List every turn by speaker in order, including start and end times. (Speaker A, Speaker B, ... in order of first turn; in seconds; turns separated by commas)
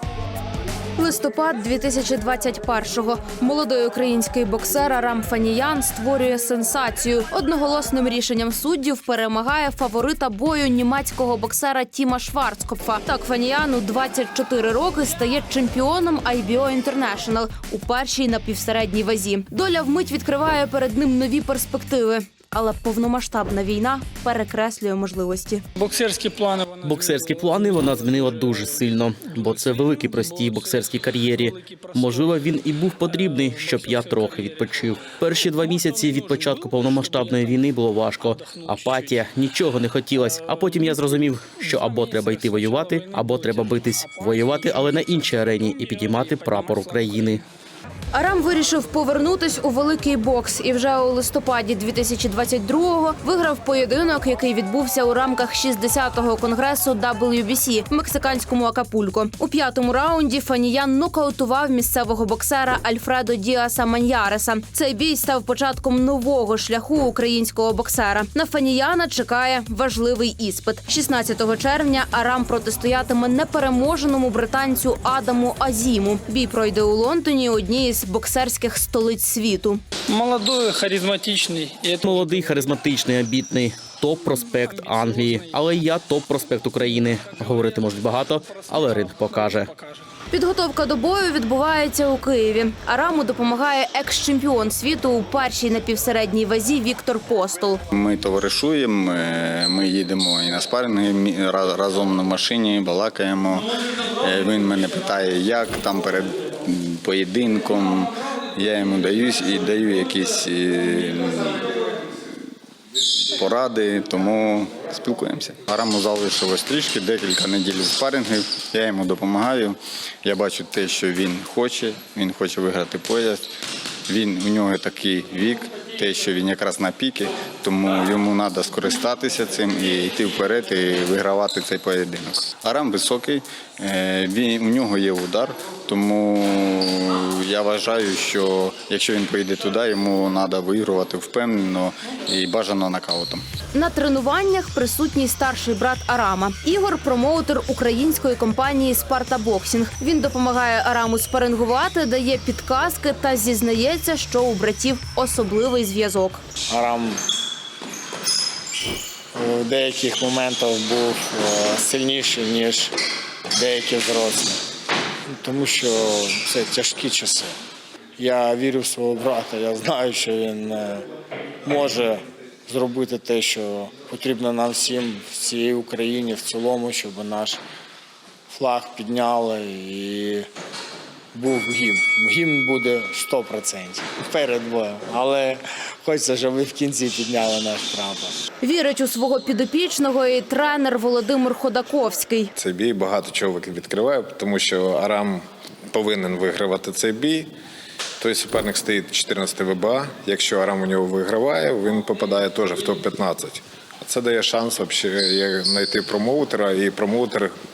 Speaker A: 0.9-25.6, Speaker B: 25.8-26.7, Speaker C: 26.8-47.4, Speaker A: 48.1-79.8, Speaker B: 80.1-82.1, Speaker C: 82.0-89.7, Speaker A: 90.3-97.8, Speaker D: 97.9-111.7, Speaker D: 113.3-123.4, Speaker D: 124.1-143.4, Speaker A: 143.7-156.4, Speaker E: 156.7-157.2, Speaker E: 159.3-162.9, Speaker E: 163.6-164.6, Speaker E: 165.3-167.5, Speaker E: 168.2-171.0, Speaker E: 171.6-177.6, Speaker E: 178.5-180.5, Speaker E: 181.3-188.4, Speaker A: 188.6-192.5, Speaker F: 192.6-197.5, Speaker F: 198.2-207.5